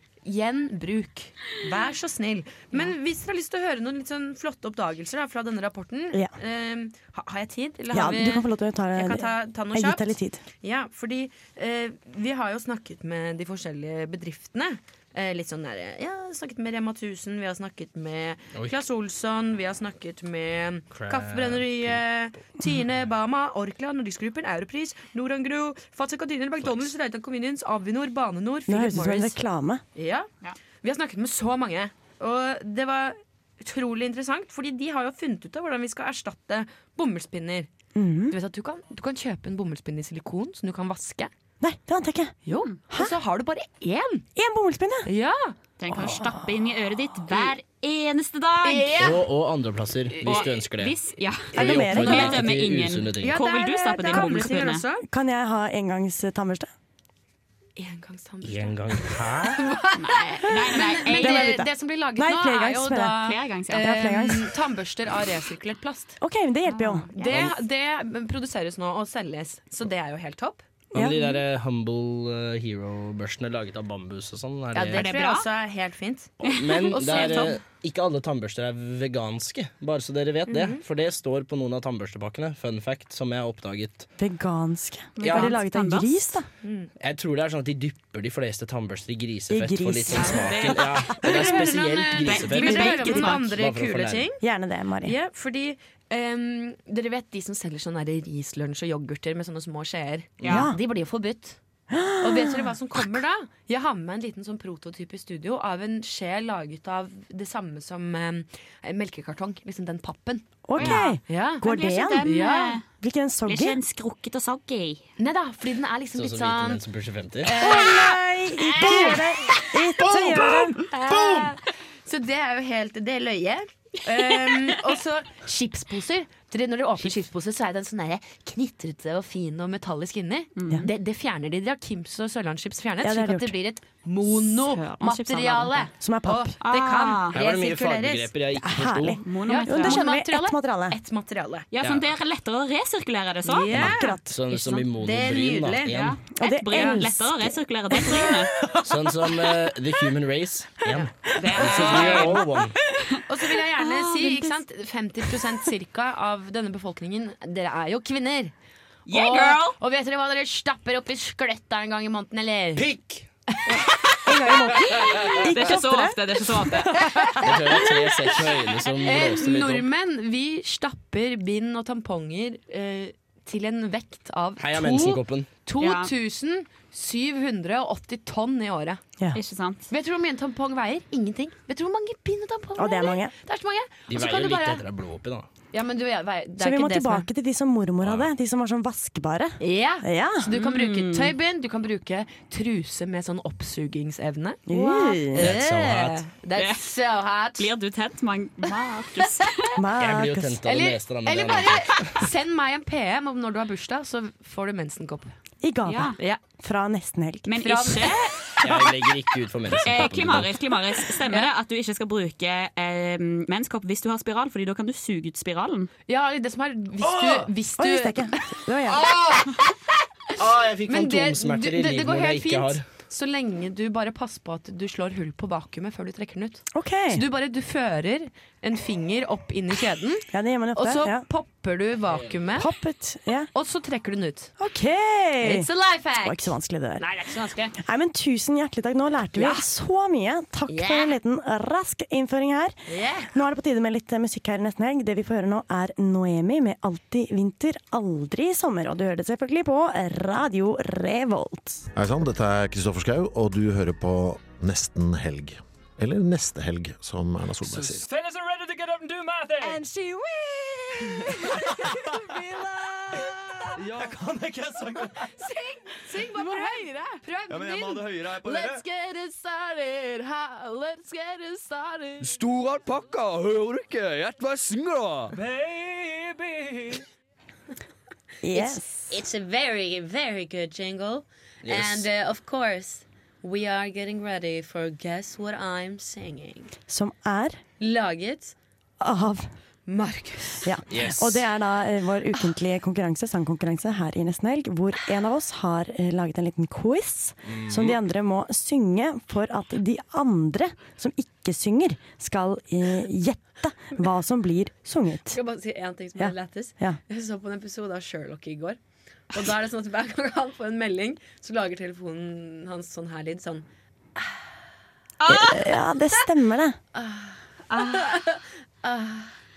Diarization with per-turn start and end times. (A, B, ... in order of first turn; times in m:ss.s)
0:00.2-0:29.4 A
0:07.9-0:10.4 B
0:18.5-0:18.8 C
0:20.9-0:22.0 C
0:26.6-0:26.9 C
0:28.7-0:29.8 B
0:29.9-0:30.3 A
0:30.8-0:37.7 A
0:37.9-0:38.3 B
0:38.3-0:41.3 A
0:41.6-0:42.3 B
0:42.4-0:44.2 A
0:44.4-0:45.1 B
0:45.0-0:45.6 A
0:45.8-0:49.0 D
0:45.9-0:46.2 B
0:48.6-0:49.3 A
0:49.0-0:50.9 C
0:50.1-0:50.5 A
0:50.2-0:54.8 D
0:51.5-0:52.4 B
0:51.5-0:53.3 C
0:52.0-0:52.4 A
0:53.2-0:55.0 A
0:55.0-0:56.7 B
0:57.8-1:06.2 A
0:58.4-0:59.6 C
0:59.9-1:01.6 D
1:01.0-1:04.5 B
1:03.2-1:03.8 D
1:06.2-1:07.1 B
1:07.1-1:10.6 A
1:10.9-1:11.2 B
1:10.9-1:15.1 C
1:14.7-1:16.3 A
1:14.9-1:15.5 D
1:16.4-1:24.1 C
1:16.4-1:17.6 D
1:17.0-1:17.5 A
1:20.5-1:20.8 A
1:24.2-1:26.5 B
1:25.2-1:26.3 D
1:25.2-1:25.5 C
1:26.6-1:26.9 A
1:27.0-1:34.3 C
1:29.5-1:30.8 B
1:30.1-1:33.5 D
1:31.2-1:34.4 A
1:32.6-1:33.3 B
1:34.4-1:35.1 B
1:35.0-1:41.6 A
1:40.4-1:40.7 D
1:40.4-1:40.8 B
1:41.9-1:42.7 B
1:42.2-1:51.6 A
1:50.6-1:52.3 B
1:50.8-1:52.8 D
1:52.2-1:52.8 A
1:52.9-1:53.8 B
1:53.5-1:55.0 D
1:55.2-1:56.8 A
1:56.1-1:57.5 C
1:57.4-1:58.2 A
1:57.6-2:00.8 B
1:58.7-1:59.2 D
1:58.7-1:59.2 A
2:00.0-2:00.6 E
2:00.8-2:18.3 A
2:10.6-2:10.9 D
2:13.0-2:13.5 B
2:14.2-2:15.9 D
2:16.0-2:16.6 B
2:16.6-2:17.4 D
2:17.3-2:19.2 C
2:18.6-2:21.0 B
2:19.2-2:20.0 D
2:19.5-2:21.7 A
2:21.7-2:23.9 D
2:21.8-2:22.1 C
2:23.4-2:24.2 A
2:23.7-2:26.2 C
2:23.8-2:24.7 B
2:24.7-2:26.0 A
2:25.9-2:28.5 D
2:26.3-2:28.3 B
2:28.8-2:32.7 C
2:31.4-2:32.4 D
2:31.6-2:32.2 A
2:33.3-2:38.5 A
2:33.8-2:34.5 D
2:39.1-2:39.8 D
2:39.1-2:42.9 A
2:42.8-2:43.2 C
2:44.2-2:46.2 B
2:45.0-2:45.4 C
2:45.2-2:47.3 D
2:47.4-2:49.9 C
2:47.8-2:48.5 D
2:49.0-2:59.0 A
2:54.6-2:55.5 C
2:55.8-2:56.1 D
2:59.3-2:59.9 D
2:59.9-3:04.8 A
3:02.8-3:03.3 B
3:04.1-3:05.5 C
3:05.7-3:07.3 A
3:06.6-3:10.5 B
3:08.0-3:08.3 C
3:09.6-3:17.7 A
3:10.5-3:11.3 D
3:14.7-3:15.5 B
3:15.4-3:16.2 C
3:16.5-3:16.8 D
3:17.6-3:19.7 D
3:19.2-3:19.5 A
3:19.8-3:20.6 B
3:20.0-3:22.1 C
3:20.6-3:25.3 A
3:25.6-3:27.6 B
3:25.8-3:26.2 D
3:27.4-3:28.6 D
3:27.6-3:28.3 A
3:28.6-3:30.5 C
3:29.8-3:35.9 D
3:36.1-3:38.3 A
3:37.0-3:37.4 E
3:37.8-3:39.1 B
3:40.4-3:42.8 C
3:40.9-3:52.7 A
3:46.7-3:47.2 B
3:50.3-3:51.2 B
3:52.1-3:52.5 C
3:52.6-3:53.5 B
3:53.5-3:54.5 A
3:54.6-3:55.7 B
3:55.4-3:56.5 A
3:56.2-3:57.0 B
3:57.0-3:57.7 D
3:57.8-4:02.7 B
3:59.4-3:59.6 A
4:00.7-4:01.2 A
4:02.9-4:03.3 A
4:03.3-4:11.8 B
4:11.9-4:18.0 F
4:17.8-4:19.8 G
4:23.8-4:25.1 E
4:25.4-4:32.3 A
4:27.5-4:28.8 E
4:32.2-4:35.3 E
4:35.3-4:37.0 G
4:38.4-4:39.1 B
4:38.5-4:46.7 A
4:41.6-4:42.1 C
4:46.9-4:47.6 B
4:47.8-4:48.5 A
4:49.0-4:49.5 B
4:49.9-4:50.8 A
4:50.6-5:05.4 B
4:50.9-4:51.4 C
4:57.4-4:58.0 C
5:05.3-5:08.8 A
5:06.2-5:07.0 B
5:09.3-5:13.6 A
5:15.2-5:15.8 D
5:15.3-5:16.8 B
5:16.9-5:19.3 A
5:17.7-5:18.2 D